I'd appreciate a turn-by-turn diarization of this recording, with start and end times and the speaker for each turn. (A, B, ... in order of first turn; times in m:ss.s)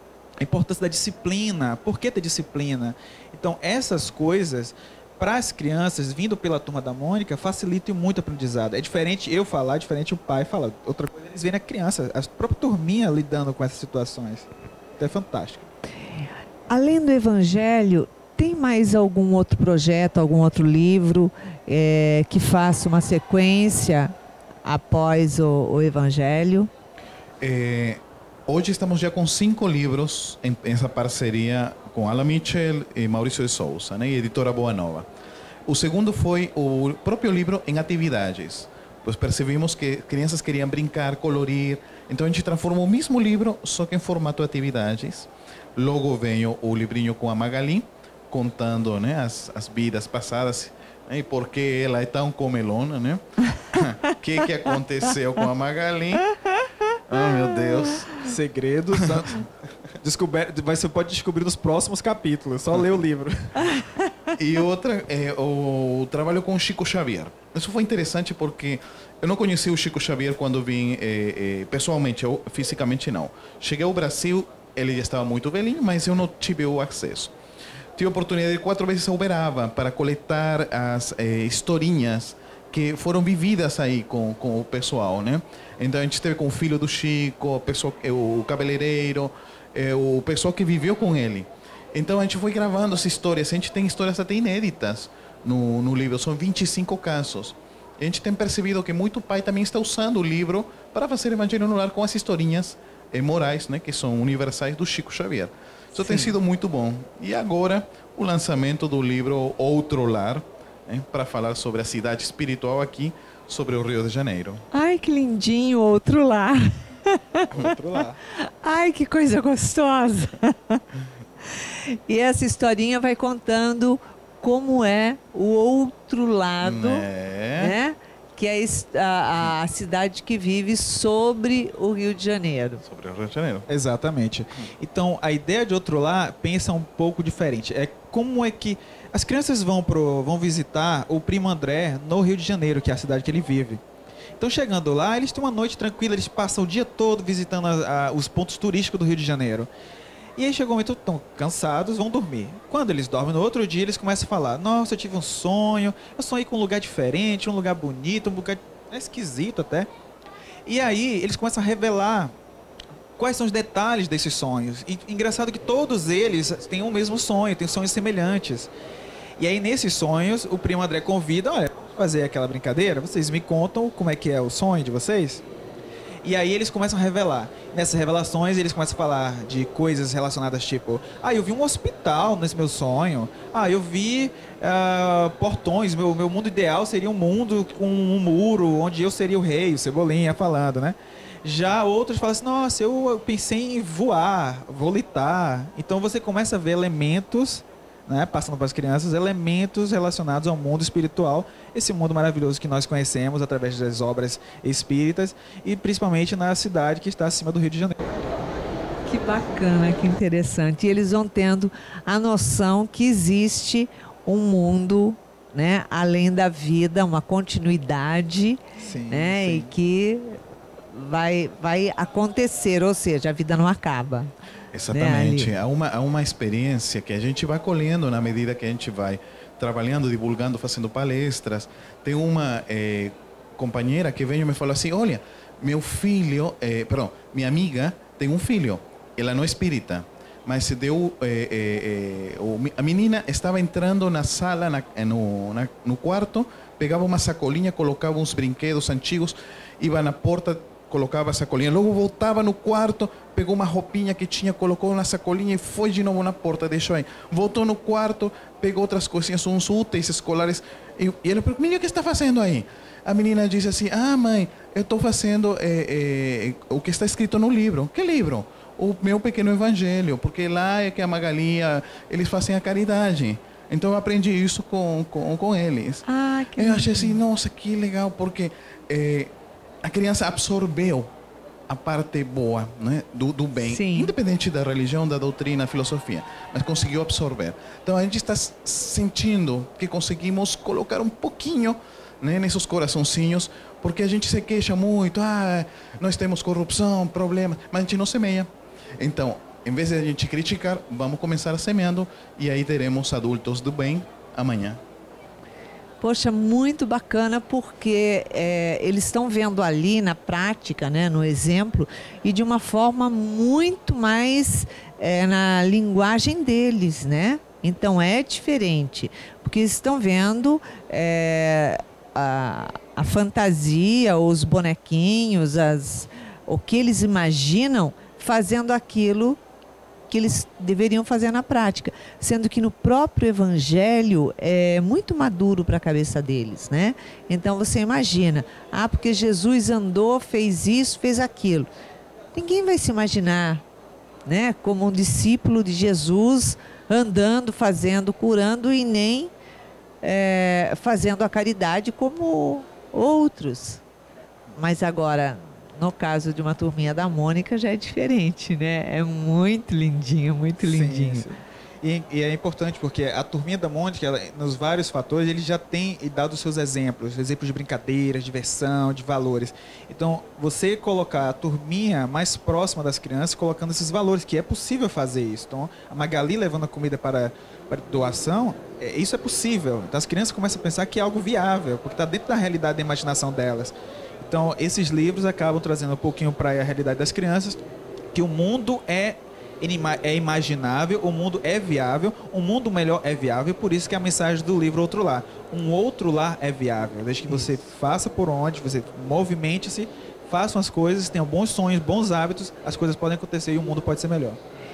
0:00.4-0:14.5 A
0:15.0-0:15.7 A
0:16.7-0:24.1 B
0:24.6-0:26.7 B
0:27.4-0:35.1 C
0:35.7-0:56.2 C
0:56.9-0:58.2 B
0:57.1-0:58.1 C
0:58.2-0:59.4 A
1:00.0-1:03.8 A
1:04.3-1:17.3 C
1:18.0-1:54.6 C
1:45.9-1:46.3 B
1:54.7-1:57.7 B
1:57.5-1:58.2 A
1:58.3-2:00.8 B
2:01.5-2:12.8 B
2:06.6-2:07.7 C
2:12.8-2:13.7 C
2:13.7-2:23.8 A
2:24.4-2:29.7 A
2:30.4-2:39.9 A
2:40.6-2:42.3 A
2:43.2-2:48.7 A
2:49.4-2:55.4 A
2:56.2-3:28.1 A
3:29.1-3:40.4 B
3:38.8-3:39.7 A
3:40.9-3:44.3 B
3:44.7-4:36.0 C
3:44.9-3:45.5 B
4:36.0-4:37.2 B
4:36.6-4:41.1 C
4:41.7-5:04.8 C
4:43.6-4:44.1 B
5:06.0-5:29.4 B
5:30.1-5:41.7 B
5:42.3-5:43.6 B
5:44.2-5:49.3 B
5:50.0-5:53.8 B
5:54.6-6:01.3 B
6:00.6-6:27.6 A
6:28.1-6:44.4 A